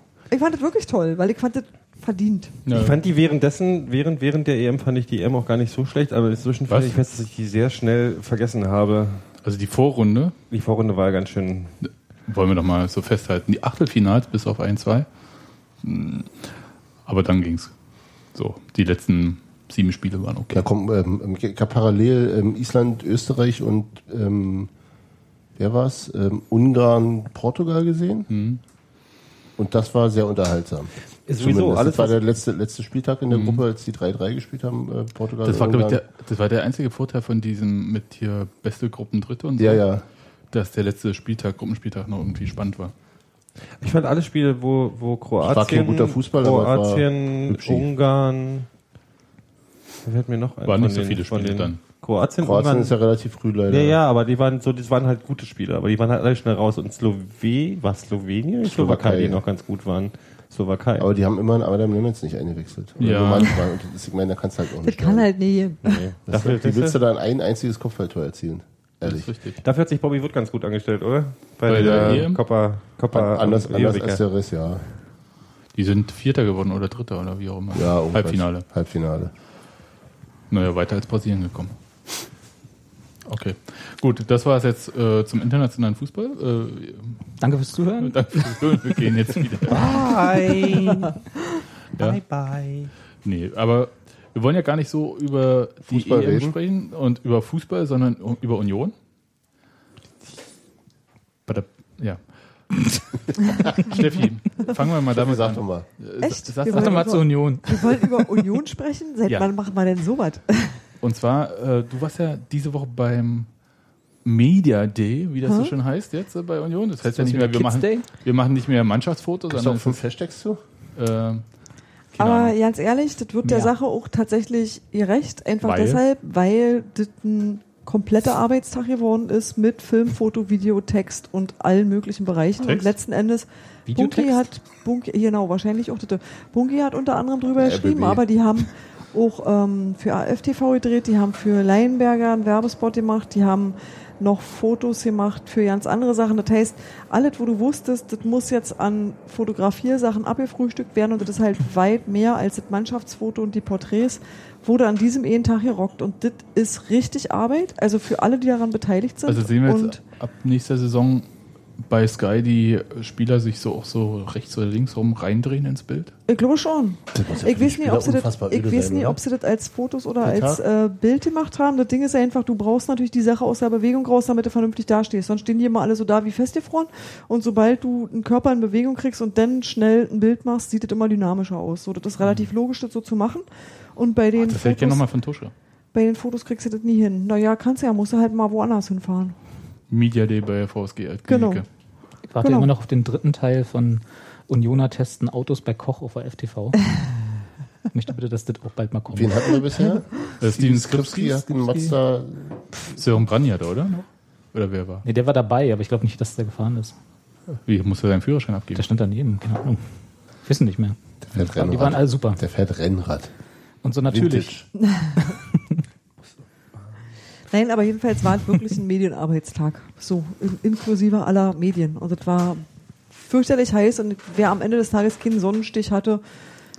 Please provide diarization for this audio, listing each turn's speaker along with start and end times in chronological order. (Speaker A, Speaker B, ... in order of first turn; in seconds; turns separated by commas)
Speaker A: 0.3-2.6, Speaker B: 2.6-3.0, Speaker C: 2.7-9.2, Speaker B: 6.7-7.0, Speaker B: 9.4-10.3, Speaker C: 10.5-11.8, Speaker B: 12.3-15.1, Speaker B: 15.8-16.3, Speaker B: 17.1-17.7, Speaker B: 18.3-20.6, Speaker D: 20.5-24.7, Speaker D: 25.6-28.3, Speaker B: 28.3-28.6, Speaker D: 29.6-36.0, Speaker C: 31.3-32.2, Speaker B: 33.3-33.6, Speaker B: 35.4-39.8, Speaker D: 39.6-40.0, Speaker B: 40.5-42.9, Speaker C: 43.8-48.7, Speaker D: 45.4-47.9, Speaker C: 50.0-53.0, Speaker B: 50.6-51.8, Speaker D: 52.4-54.0, Speaker C: 53.7-61.1, Speaker D: 58.6-59.4, Speaker D: 61.0-65.3, Speaker B: 63.0-63.6, Speaker A: 64.8-66.0, Speaker C: 65.8-67.0, Speaker D: 66.3-69.3, Speaker B: 69.0-69.6, Speaker C: 69.6-74.2, Speaker B: 71.7-72.4, Speaker D: 71.7-72.3, Speaker D: 73.1-74.8, Speaker B: 75.7-78.6, Speaker D: 77.7-79.3, Speaker B: 80.5-81.7, Speaker B: 83.2-87.2, Speaker E: 87.4-89.4, Speaker B: 88.0-90.2, Speaker C: 89.7-91.2, Speaker C: 92.0-92.9, Speaker B: 93.2-98.9, Speaker D: 95.8-96.5, Speaker B: 101.5-102.2, Speaker B: 103.5-107.2, Speaker D: 105.1-105.9, Speaker A: 106.2-110.8, Speaker E: 106.7-108.2, Speaker B: 111.0-113.5, Speaker B: 114.2-120.0, Speaker A: 115.5-115.7, Speaker E: 117.1-118.1, Speaker D: 119.5-120.6, Speaker B: 121.0-121.4, Speaker B: 122.2-122.6, Speaker A: 122.2-160.0, Speaker E: 123.4-123.7, Speaker B: 125.6-126.0, Speaker B: 132.6-132.9, Speaker E: 133.9-134.4, Speaker D: 137.6-138.2, Speaker B: 159.2-161.3, Speaker B: 161.8-166.1, Speaker A: 166.3-185.0, Speaker D: 167.1-169.2, Speaker D: 170.2-170.6, Speaker B: 182.2-182.5, Speaker B: 184.4-185.5, Speaker A: 185.9-189.3, Speaker B: 189.9-191.7, Speaker A: 191.3-191.6, Speaker E: 192.3-196.8, Speaker A: 192.4-192.7, Speaker E: 197.9-199.6, Speaker D: 199.1-202.6, Speaker B: 200.4-201.9, Speaker B: 202.9-205.0, Speaker E: 205.0-206.9, Speaker B: 207.6-208.8, Speaker E: 208.7-209.8, Speaker E: 210.4-212.4, Speaker D: 211.2-213.3, Speaker E: 213.8-214.6, Speaker D: 214.1-214.7, Speaker A: 214.8-215.4, Speaker A: 217.5-226.2